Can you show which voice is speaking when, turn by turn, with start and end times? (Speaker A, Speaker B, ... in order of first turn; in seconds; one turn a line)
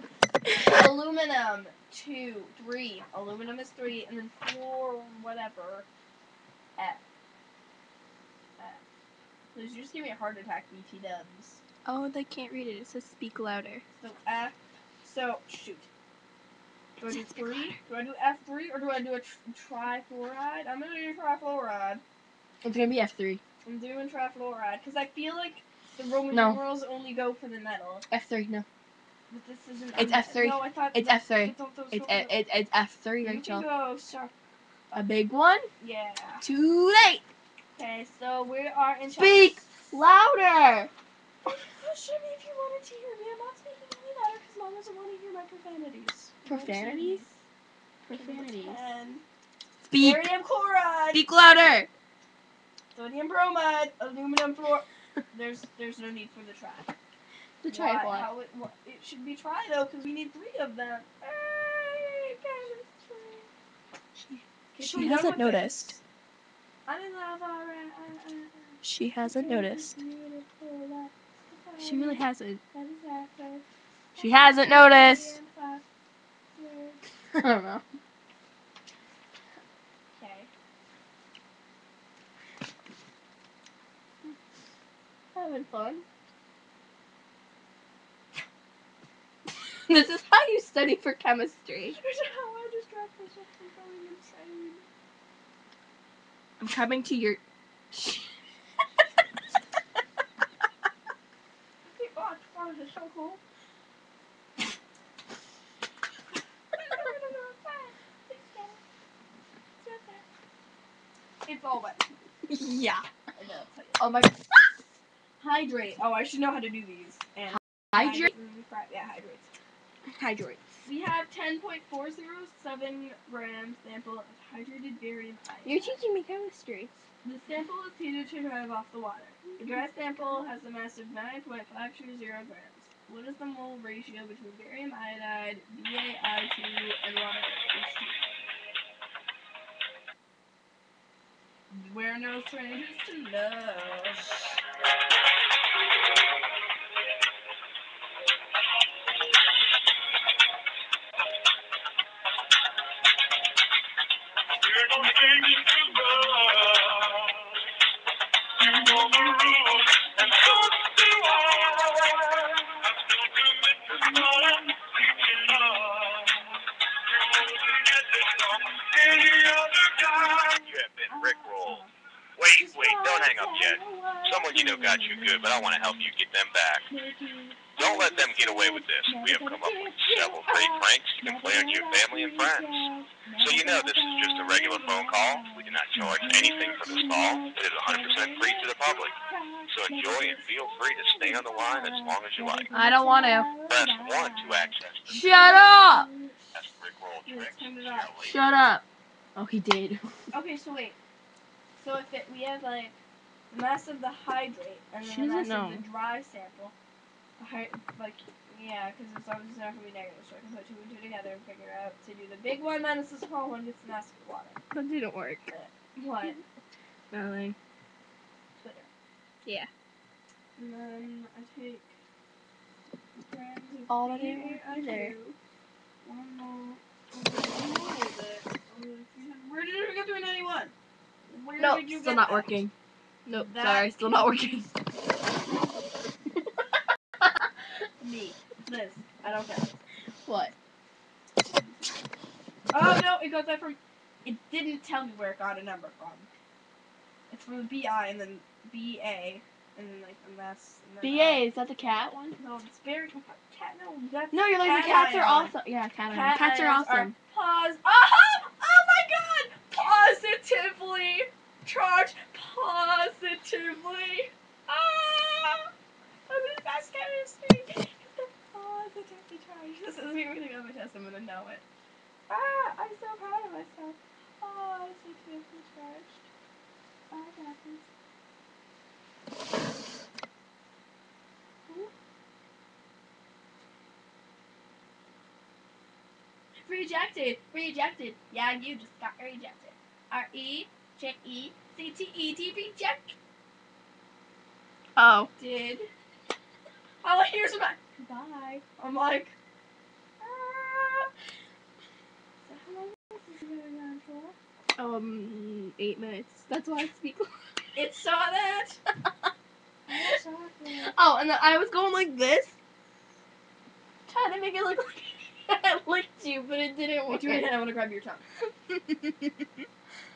Speaker A: 0.5-5.9
Speaker A: 6.8-7.0
Speaker A: 8.6-8.8
Speaker A: 9.5-11.6
Speaker B: 11.9-13.8
Speaker A: 14.0-15.9
Speaker A: 17.0-22.0
Speaker B: 17.1-17.8
Speaker B: 22.6-23.4
Speaker A: 23.6-28.1
Speaker B: 26.3-26.6
Speaker B: 28.1-28.6
Speaker A: 29.3-32.4
Speaker B: 30.0-33.7
Speaker A: 33.2-34.3
Speaker B: 34.9-35.7
Speaker A: 35.8-36.5
Speaker B: 36.4-37.2
Speaker A: 37.8-39.7
Speaker B: 39.2-40.9
Speaker A: 41.5-47.4
Speaker B: 46.5-47.2
Speaker B: 48.1-48.8
Speaker A: 48.1-49.2
Speaker B: 49.9-50.2
Speaker A: 50.0-51.2
Speaker B: 51.1-51.9
Speaker A: 52.9-57.0
Speaker B: 57.6-58.3
Speaker A: 57.7-63.5
Speaker B: 64.2-66.0
Speaker A: 64.8-66.0
Speaker A: 66.9-75.8
Speaker B: 68.8-70.0
Speaker B: 71.8-72.6
Speaker B: 74.2-75.3
Speaker A: 76.5-77.0
Speaker B: 77.3-77.8
Speaker A: 80.1-80.5
Speaker B: 85.3-86.0
Speaker B: 89.9-92.0
Speaker A: 92.0-94.8
Speaker B: 96.6-97.4
Speaker B: 97.9-98.2
Speaker A: 101.8-103.4
Speaker A: 106.7-108.8
Speaker A: 109.8-110.2
Speaker A: 111.5-112.1
Speaker B: 112.5-113.1
Speaker A: 113.4-114.3
Speaker B: 114.0-114.7
Speaker A: 115.4-119.5
Speaker B: 117.9-118.3
Speaker B: 120.1-120.6
Speaker A: 120.9-126.0
Speaker B: 125.7-127.0
Speaker A: 127.2-138.4
Speaker B: 129.5-130.4
Speaker A: 141.7-144.6
Speaker C: 160.3-161.9
Speaker A: 163.9-164.7
Speaker C: 168.1-171.8
Speaker A: 170.0-171.9
Speaker C: 172.4-176.9
Speaker A: 172.5-176.1
Speaker A: 176.9-196.5
Speaker C: 177.8-189.2
Speaker C: 189.7-192.8
Speaker B: 192.7-193.5
Speaker C: 193.7-195.8
Speaker B: 195.1-196.1
Speaker C: 196.5-198.4
Speaker A: 197.2-198.2
Speaker B: 198.2-198.8
Speaker B: 199.4-200.1
Speaker A: 200.3-201.0
Speaker A: 201.8-203.0
Speaker A: 203.5-206.8
Speaker B: 205.0-205.8
Speaker A: 207.4-214.6
Speaker B: 214.7-215.5
Speaker A: 215.5-216.4
Speaker B: 217.1-217.6
Speaker A: 218.6-218.9
Speaker A: 220.6-222.0
Speaker A: 223.3-225.4
Speaker B: 223.9-225.2
Speaker A: 226.0-230.7
Speaker A: 231.3-232.5
Speaker B: 231.6-232.7
Speaker B: 233.3-234.7
Speaker A: 233.3-234.3
Speaker A: 238.0-239.8
Speaker B: 240.3-240.5
Speaker A: 242.7-246.3
Speaker A: 247.3-251.4
Speaker B: 251.0-252.4
Speaker A: 252.4-255.5
Speaker B: 254.3-257.1
Speaker A: 256.1-265.7
Speaker A: 266.3-271.6
Speaker A: 272.3-276.3
Speaker A: 277.1-277.9
Speaker A: 286.6-293.1
Speaker B: 295.0-295.3
Speaker A: 295.4-295.9
Speaker A: 297.0-299.3
Speaker A: 300.2-301.1
Speaker A: 302.4-304.4
Speaker B: 304.8-307.3
Speaker A: 307.8-308.8
Speaker A: 309.9-310.9
Speaker B: 310.8-312.6
Speaker B: 314.1-317.5
Speaker A: 317.1-318.2
Speaker B: 318.7-319.3